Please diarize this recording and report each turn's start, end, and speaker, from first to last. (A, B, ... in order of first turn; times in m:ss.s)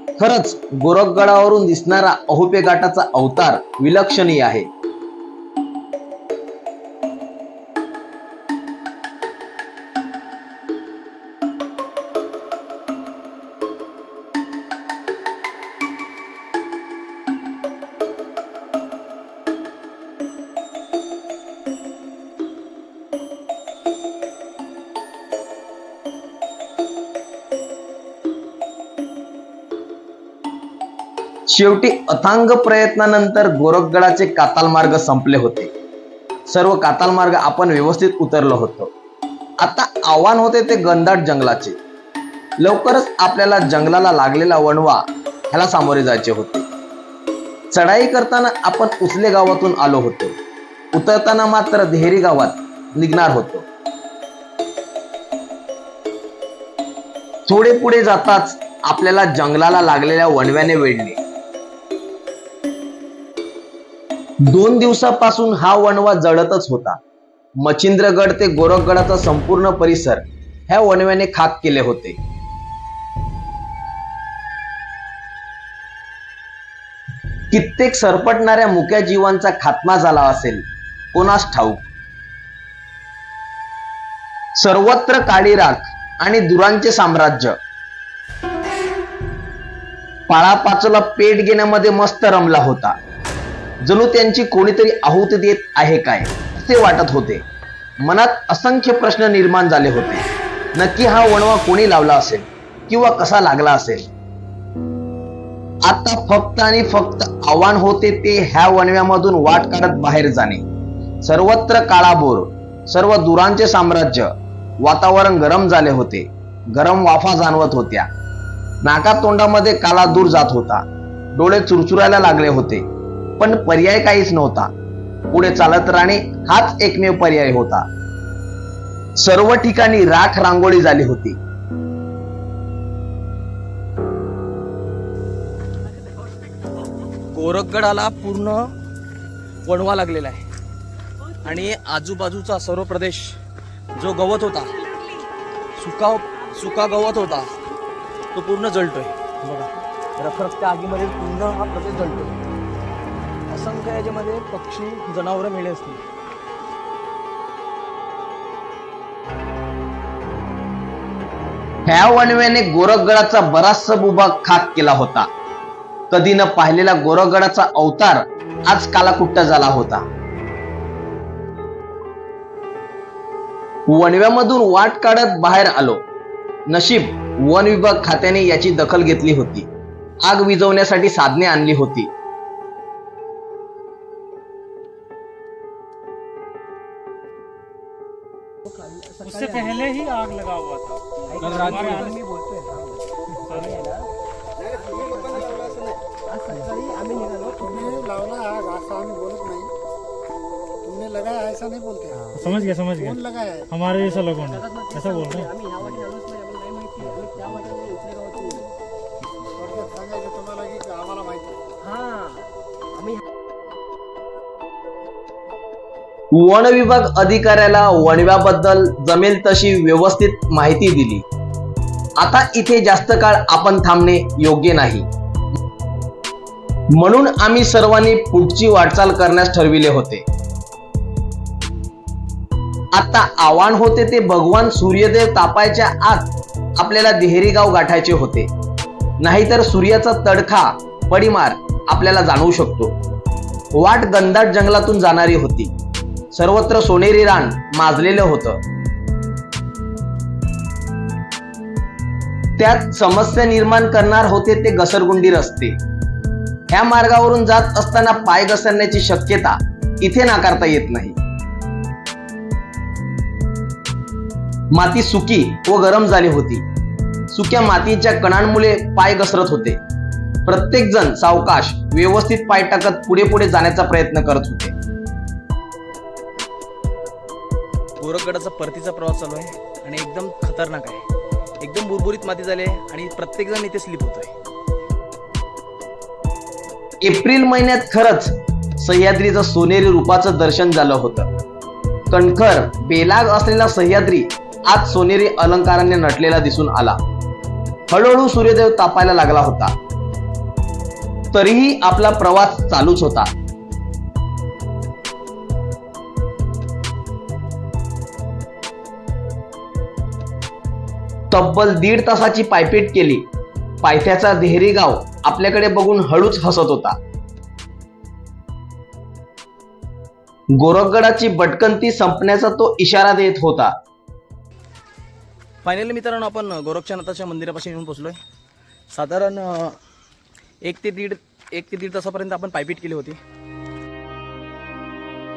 0:00.2-0:04.7 A
0:31.5-0:35.7 A
0:36.5-0:38.9 A
0:39.6-0:41.8 A
0:42.6-0:46.7 A
0:47.7-0:50.4 A
0:50.9-0:53.7 A
0:57.5-1:01.2 A
1:04.5-1:07.0 A
1:07.6-1:12.2 A
1:17.5-1:21.9 A
1:24.6-1:27.6 A
1:30.3-1:32.9 A
1:33.8-1:37.4 A
1:38.0-1:44.1 A
1:45.8-1:50.6 A
1:51.2-1:54.3 A
1:54.8-1:58.1 A
1:58.8-2:00.8 A
2:01.4-2:02.8 A
2:03.4-2:04.7 A
2:05.3-2:07.9 A
2:09.2-2:11.4 A
2:17.3-2:18.7 B
2:19.6-2:20.4 B
2:21.4-2:23.4 B
2:24.0-2:24.8 B
2:25.8-2:27.5 B
2:28.3-2:32.4 B
2:33.5-2:36.0 B
2:41.9-2:45.3 A
2:46.1-2:50.1 A
2:53.9-2:56.0 A
2:56.7-2:59.7 A
3:00.2-3:02.1 A
3:09.3-3:10.0 B
3:10.1-3:11.0 C
3:11.4-3:12.8 B
3:13.5-3:13.9 B
3:15.0-3:15.7 D
3:16.7-3:18.1 B
3:18.0-3:19.7 D
3:20.9-3:23.6 D
3:22.6-3:23.2 C
3:23.7-3:24.5 C
3:24.9-3:25.6 D
3:25.0-3:26.2 B
3:27.0-3:28.0 B
3:29.8-3:31.5 D
3:36.3-3:41.2 A
3:42.2-3:45.1 A
3:46.9-3:50.3 A
3:52.9-3:58.5 A
3:59.2-4:03.0 A
4:03.7-4:05.7 A
4:06.3-4:08.6 A
4:12.6-4:15.8 A
4:16.7-4:21.2 A
4:24.7-4:26.6 A
4:27.3-4:29.8 A
4:30.4-4:34.7 A
4:38.0-4:41.0 B
4:41.6-4:44.3 B
4:47.0-4:51.3 A
4:52.1-4:57.0 A
4:57.9-4:59.7 A
5:01.3-5:03.3 A
5:11.3-5:13.2 A
5:13.8-5:17.0 A
5:20.6-5:23.7 A
5:25.6-5:28.2 B
5:28.9-5:29.8 B
5:30.6-5:33.2 B